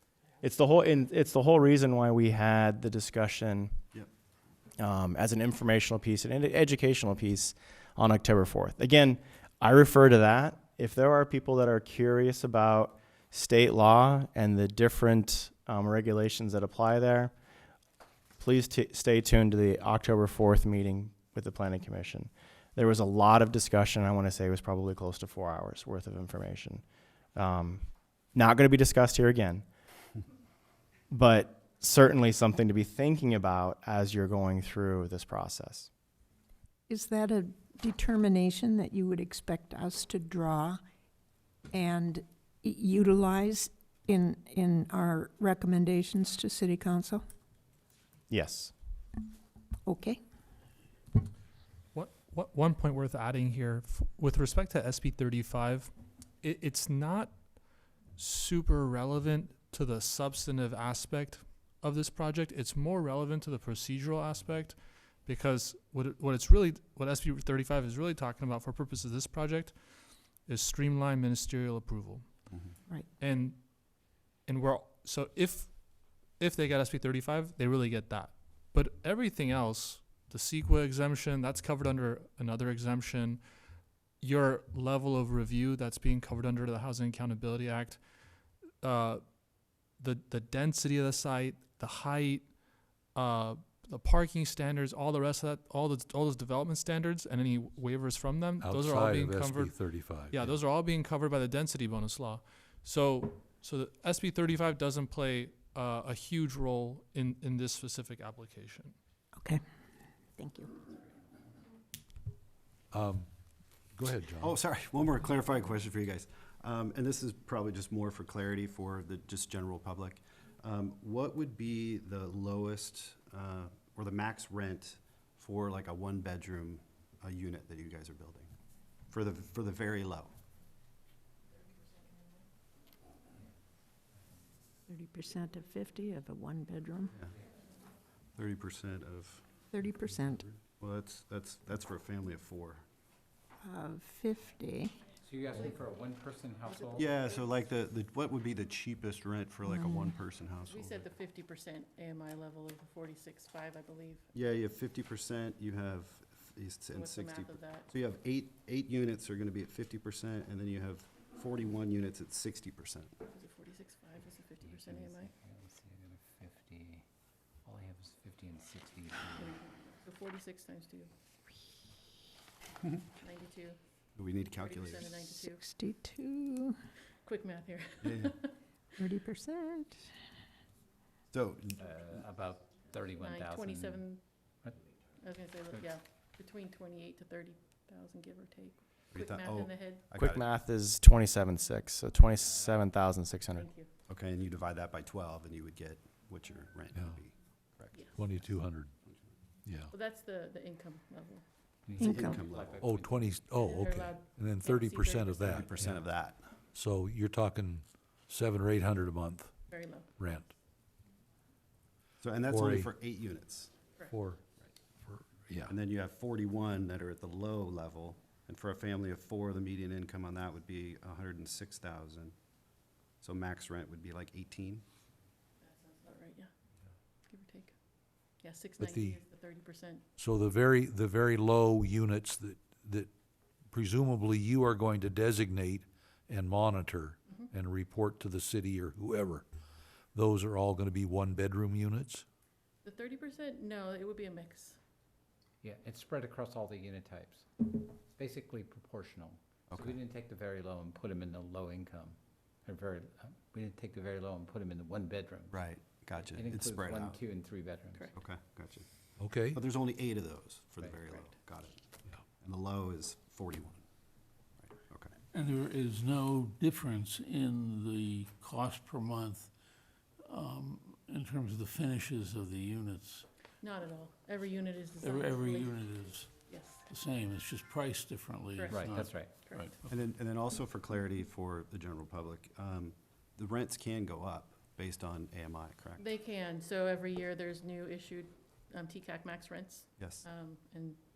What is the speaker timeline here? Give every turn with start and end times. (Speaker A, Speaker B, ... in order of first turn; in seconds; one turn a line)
Speaker A: 0.4-3.7
Speaker A: 4.8-17.3
Speaker A: 18.4-26.8
Speaker A: 27.4-29.6
Speaker A: 31.1-35.9
Speaker B: 36.9-40.8
Speaker B: 41.7-47.2
Speaker A: 48.3-48.7
Speaker B: 49.9-50.2
Speaker C: 51.9-57.4
Speaker C: 58.2-69.8
Speaker C: 70.5-72.2
Speaker C: 73.2-73.6
Speaker C: 74.5-83.4
Speaker C: 84.2-88.0
Speaker C: 88.8-89.3
Speaker C: 89.9-99.8
Speaker D: 98.6-100.5
Speaker C: 100.3-108.9
Speaker B: 109.3-109.6
Speaker B: 110.3-110.7
Speaker D: 112.9-113.3
Speaker D: 113.9-114.6
Speaker E: 114.4-128.5
Speaker E: 129.1-130.3
Speaker B: 134.9-137.1
Speaker E: 138.3-139.5
Speaker B: 139.7-140.4
Speaker E: 140.7-142.8
Speaker B: 143.6-144.9
Speaker F: 145.2-147.1
Speaker E: 146.9-151.1
Speaker B: 149.6-150.1
Speaker G: 150.7-154.3
Speaker E: 154.3-163.2
Speaker G: 156.9-157.9
Speaker G: 163.3-165.3
Speaker F: 164.6-167.0
Speaker F: 167.6-169.6
Speaker G: 169.4-171.1
Speaker G: 173.2-173.8
Speaker E: 174.2-175.3
Speaker G: 174.6-175.6
Speaker B: 175.4-176.8
Speaker G: 177.2-178.6
Speaker E: 178.0-178.4
Speaker B: 179.0-180.0
Speaker E: 181.3-181.8
Speaker F: 181.8-184.0
Speaker G: 183.2-184.2
Speaker G: 185.2-190.0
Speaker E: 189.1-190.4
Speaker A: 190.1-193.7
Speaker G: 193.5-193.9
Speaker E: 194.1-198.1
Speaker D: 198.1-198.9
Speaker D: 199.6-199.9
Speaker G: 199.9-201.4
Speaker F: 201.9-203.4
Speaker B: 202.0-202.4
Speaker E: 202.0-202.8
Speaker D: 202.8-206.0
Speaker G: 203.6-205.6
Speaker E: 205.5-206.4
Speaker D: 206.7-209.6
Speaker G: 209.7-210.1
Speaker D: 210.2-210.5
Speaker E: 212.2-213.7
Speaker D: 212.5-212.9
Speaker D: 214.1-214.4
Speaker D: 215.0-215.7
Speaker E: 215.7-222.3
Speaker E: 223.2-224.8
Speaker G: 225.6-226.5
Speaker G: 227.3-227.8
Speaker G: 228.3-230.0
Speaker D: 228.8-229.2
Speaker D: 230.2-233.1
Speaker D: 233.7-239.4
Speaker D: 240.1-242.2
Speaker G: 242.8-244.8
Speaker F: 245.6-247.5
Speaker F: 248.1-258.1
Speaker E: 249.7-250.0
Speaker E: 255.5-257.2
Speaker E: 258.1-258.9
Speaker D: 259.2-259.6
Speaker E: 259.5-261.8
Speaker F: 260.8-261.1
Speaker E: 262.4-263.8
Speaker E: 264.8-265.1
Speaker H: 265.3-269.5
Speaker H: 270.2-273.2
Speaker G: 273.6-275.8
Speaker H: 275.0-276.3
Speaker G: 276.4-276.9
Speaker H: 276.9-279.8
Speaker G: 278.5-279.7
Speaker F: 278.7-279.4
Speaker E: 279.9-286.0
Speaker G: 286.0-291.0
Speaker E: 290.0-290.2